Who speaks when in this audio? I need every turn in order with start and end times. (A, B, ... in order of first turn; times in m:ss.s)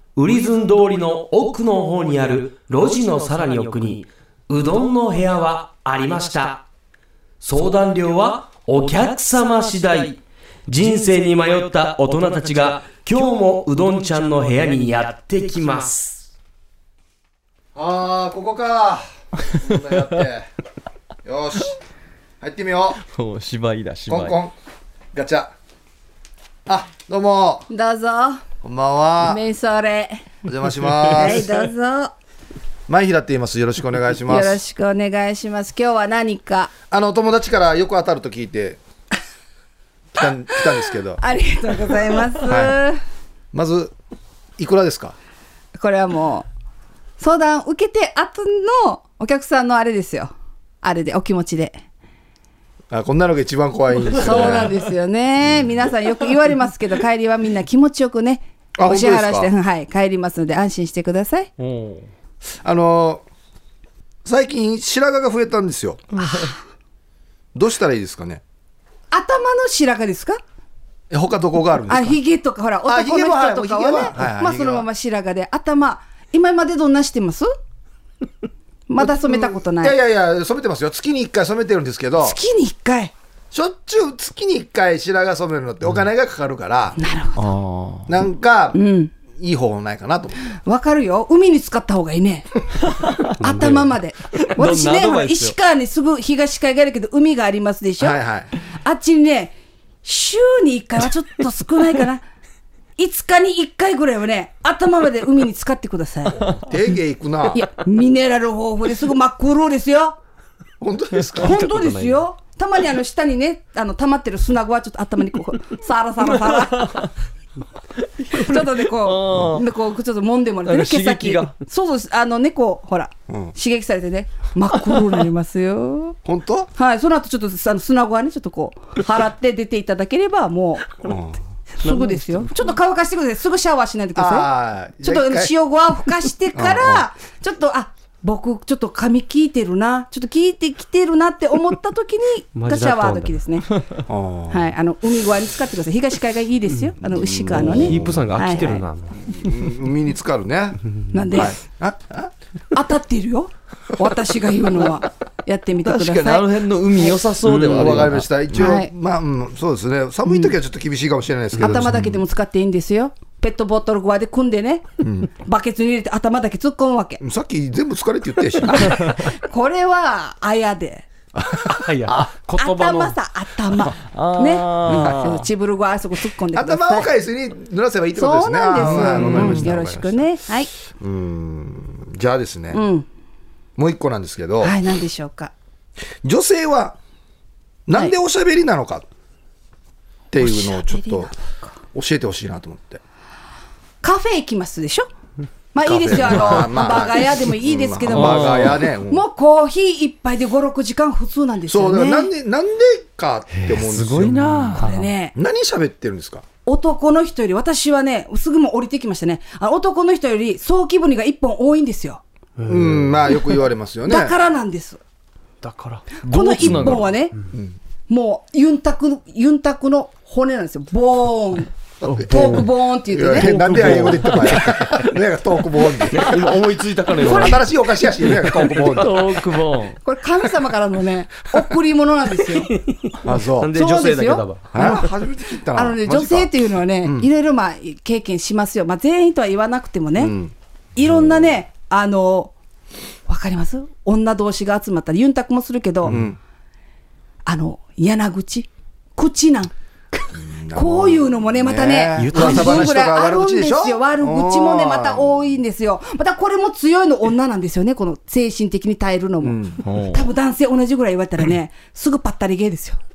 0:00.2-0:06.6 A
0:07.4-0:16.3 A
0:17.8-0:20.5 B
0:21.2-0:21.8 B
0:22.4-0:23.0 B
0:23.1-0:24.4 C
0:24.1-0:24.5 B
0:25.1-0:25.5 B
0:26.7-0:27.7 B
0:27.7-0:28.4 D
0:28.6-0:29.4 B
0:29.2-0:30.3 D
0:30.4-0:31.5 B
0:31.1-0:32.1 D
0:32.9-0:34.6 B
0:34.3-0:36.7 D
0:36.9-0:38.8 B
0:40.2-0:41.2 B
0:41.2-0:43.0 D
0:42.4-0:42.8 B
0:43.5-0:43.9 B
0:44.6-0:45.2 B
0:45.8-0:46.5 D
0:47.2-0:51.8 D
0:52.9-0:54.7 B
0:54.2-1:01.5 D
0:58.8-0:59.5 B
1:01.6-1:02.1 C
1:02.6-1:03.2 B
1:04.2-1:06.2 B
1:06.2-1:06.6 D
1:07.5-1:08.4 B
1:09.1-1:10.4 D
1:11.1-1:12.2 B
1:11.9-1:17.5 D
1:12.8-1:14.9 B
1:18.9-1:20.0 D
1:19.0-1:22.4 B
1:22.2-1:23.1 D
1:23.5-1:27.0 B
1:27.0-1:27.4 D
1:27.4-1:28.1 C
1:28.1-1:28.8 B
1:28.7-1:29.1 D
1:29.4-1:30.4 B
1:30.6-1:32.5 D
1:32.9-1:33.3 C
1:33.3-1:38.2 D
1:34.4-1:35.6 C
1:38.0-1:38.5 B
1:38.7-1:42.2 D
1:43.0-1:46.5 D
1:46.7-1:47.6 B
1:47.5-1:50.2 D
1:50.8-1:51.7 B
1:51.4-1:52.2 A
1:51.4-1:57.0 D
1:58.3-2:06.2 D
1:58.9-1:59.7 C
2:00.7-2:01.5 C
2:03.3-2:03.5 B
2:06.2-2:06.7 B
2:06.8-2:10.9 D
2:11.0-2:11.4 B
2:11.8-2:23.7 D
2:11.8-2:12.6 A
2:14.2-2:15.6 B
2:16.5-2:17.0 B
2:22.6-2:23.4 A
2:24.1-2:24.7 B
2:24.5-2:28.8 D
2:27.0-2:28.2 B
2:27.5-2:29.2 A
2:29.3-2:32.3 B
2:31.1-2:31.6 D
2:32.7-2:36.5 D
2:35.8-2:38.2 C
2:37.4-2:38.3 A
2:37.7-2:42.2 B
2:38.6-2:38.9 D
2:40.3-2:40.5 D
2:41.6-2:47.2 D
2:45.0-2:45.3 B
2:47.2-2:49.2 B
2:49.0-2:51.1 D
2:51.4-2:52.3 B
2:51.7-2:53.2 A
2:52.6-2:57.1 D
2:54.0-2:55.4 C
2:54.9-2:55.3 B
2:56.5-3:00.3 B
2:58.2-3:00.7 D
2:59.2-2:59.6 C
2:59.2-2:59.5 A
3:00.9-3:02.8 B
3:02.7-3:03.0 D
3:03.8-3:04.8 B
3:04.6-3:05.5 D
3:06.2-3:07.0 B
3:07.9-3:09.1 B
3:10.3-3:11.3 B
3:10.4-3:11.7 D
3:11.9-3:13.0 B
3:14.0-3:15.1 D
3:15.7-3:22.3 D
3:15.8-3:19.2 B
3:18.1-3:18.8 C
3:21.7-3:24.8 B
3:23.6-3:25.1 A
3:24.7-3:25.3 D
3:25.4-3:26.4 B
3:26.7-3:32.2 D
3:32.6-3:33.0 A
3:32.7-3:34.4 B
3:34.0-3:35.0 D
3:35.6-3:37.0 A
3:36.2-3:37.4 D
3:36.3-3:37.1 C
3:37.5-3:37.8 B
3:38.1-3:41.7 D
3:42.0-3:46.5 B
3:42.1-3:42.7 A
3:42.3-3:43.6 D
3:43.4-3:45.0 A
3:46.0-3:50.0 A
3:47.1-3:49.4 B
3:47.3-3:47.6 D
3:50.0-3:52.7 D
3:52.7-3:55.0 A
3:53.2-3:53.8 B
3:53.7-3:55.2 D
3:54.7-3:57.3 B
3:55.7-4:00.4 D
4:00.2-4:00.5 B
4:01.0-4:02.5 D
4:03.3-4:06.2 D
4:06.1-4:06.4 B
4:07.5-4:09.7 D
4:10.3-4:15.4 B
4:10.7-4:19.6 D
4:12.2-4:12.9 A
4:19.4-4:19.8 B
4:19.8-4:20.3 C
4:20.1-4:23.0 D